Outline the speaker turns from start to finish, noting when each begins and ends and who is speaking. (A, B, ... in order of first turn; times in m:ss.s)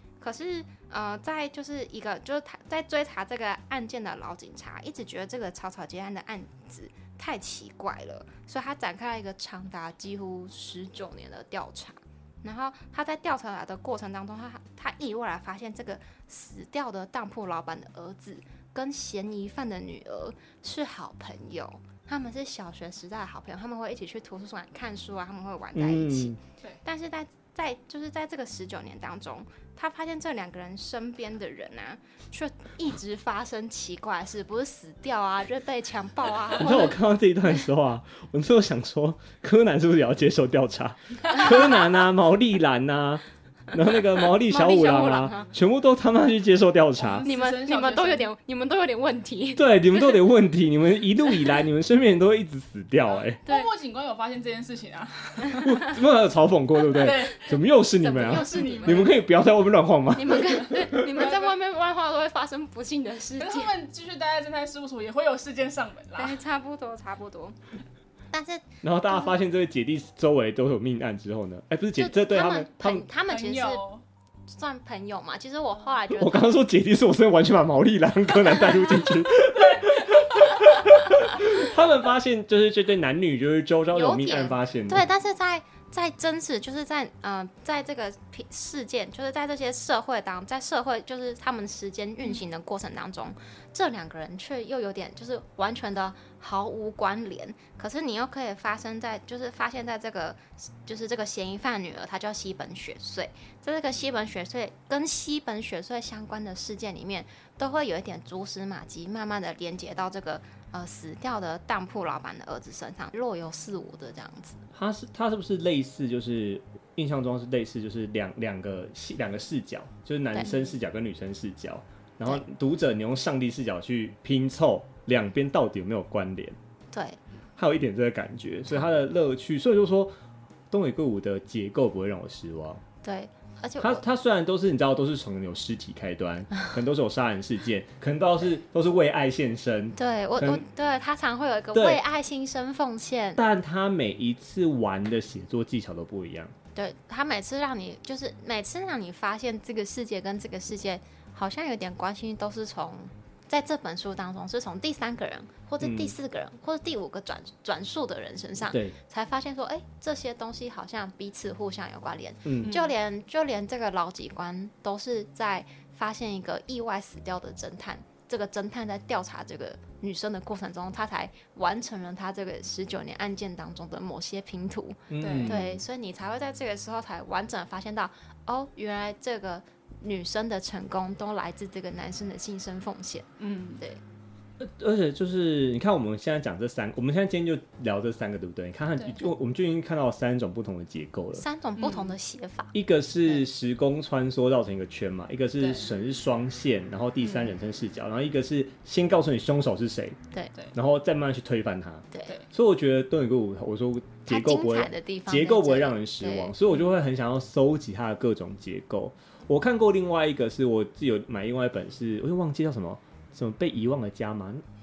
0:00.2-0:37.0 A
0:25.7-0:26.4 B
0:36.6-0:47.3 B
0:44.4-0:45.5 A
0:47.0-0:48.3 C
0:47.2-0:50.0 A
0:49.5-0:53.4 B
0:53.4-0:55.8 C
0:55.5-1:01.1 B
0:56.9-0:57.6 C
0:58.0-0:59.1 A
0:58.2-0:59.2 C
1:00.2-1:03.8 A
1:01.1-1:01.5 C
1:03.4-1:06.4 C
1:06.2-1:07.6 A
1:08.3-1:09.3 A
1:08.8-1:13.1 B
1:12.0-1:13.8 A
1:13.3-1:14.0 C
1:14.5-1:16.6 A
1:16.1-1:25.1 B
1:19.6-1:20.4 C
1:23.9-1:54.6 A
1:54.7-2:06.6 B
2:00.3-2:00.8 A
2:06.9-2:07.2 A
2:07.6-2:10.2 B
2:10.7-2:12.8 B
2:13.0-2:14.0 A
2:13.8-2:20.7 B
2:20.0-2:23.4 A
2:21.7-2:22.0 B
2:23.4-2:26.5 B
2:26.8-3:03.3 A
2:35.8-2:36.2 B
2:38.7-2:39.0 B
2:42.4-2:42.8 B
2:42.6-2:42.9 C
2:55.1-2:55.8 B
2:55.2-2:55.7 C
3:03.4-3:03.8 C
3:04.6-3:11.4 B
3:09.0-3:09.2 C
3:11.4-3:12.8 A
3:11.8-3:12.2 C
3:12.7-3:20.2 B
3:15.6-3:15.9 C
3:20.7-3:34.6 B
3:24.3-3:26.5 A